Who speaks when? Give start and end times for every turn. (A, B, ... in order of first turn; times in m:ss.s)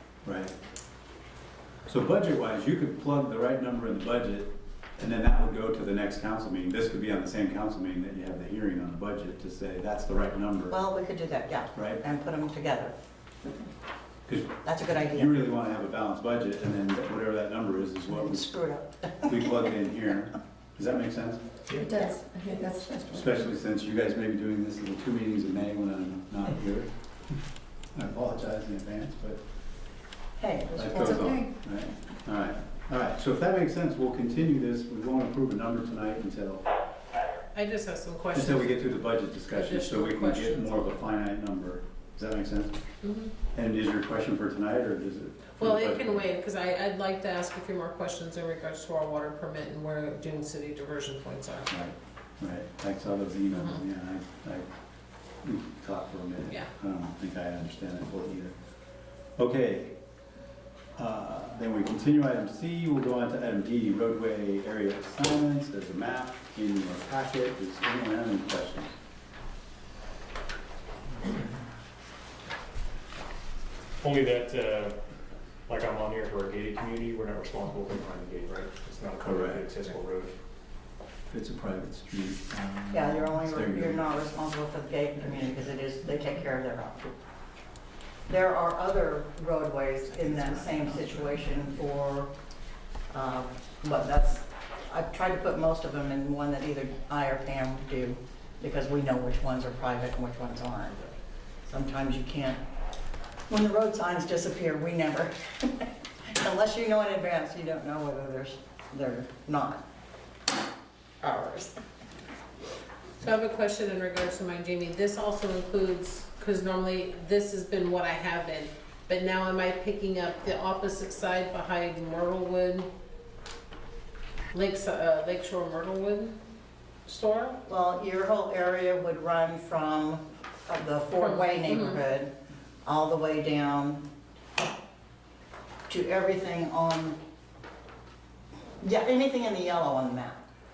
0:00.2-0:00.5 A
0:01.9-0:10.8 A
0:10.7-0:12.9 B
0:11.8-0:12.0 A
0:14.3-0:18.5 A
0:14.6-0:15.5 B
0:18.1-0:19.4 B
0:19.2-0:21.4 A
0:21.7-0:23.5 C
0:23.1-0:26.9 A
0:28.0-0:29.4 A
0:30.4-0:31.5 B
0:30.8-0:36.6 A
0:31.0-0:31.4 C
0:37.5-0:40.9 D
0:38.3-0:42.8 A
0:43.0-0:43.3 D
0:43.5-0:46.3 A
0:45.6-0:51.9 D
0:51.7-0:54.7 A
0:55.4-0:58.6 A
0:59.4-1:00.0 A
1:01.0-1:08.9 A
1:14.0-1:15.0 E
1:15.7-1:20.3 E
1:19.2-1:19.6 A
1:21.3-1:24.1 A
1:22.9-1:27.1 B
1:28.3-1:32.3 B
1:33.1-1:41.1 B
1:41.6-1:42.6 B
1:43.5-1:49.8 B
1:51.2-1:51.8 B
1:53.2-2:02.9 D
2:04.5-2:06.4 D
2:07.1-2:07.6 D
2:07.7-2:12.3 B
2:11.2-2:12.0 D
2:12.8-2:14.0 B
2:15.9-2:17.2 B
2:18.8-2:20.4 B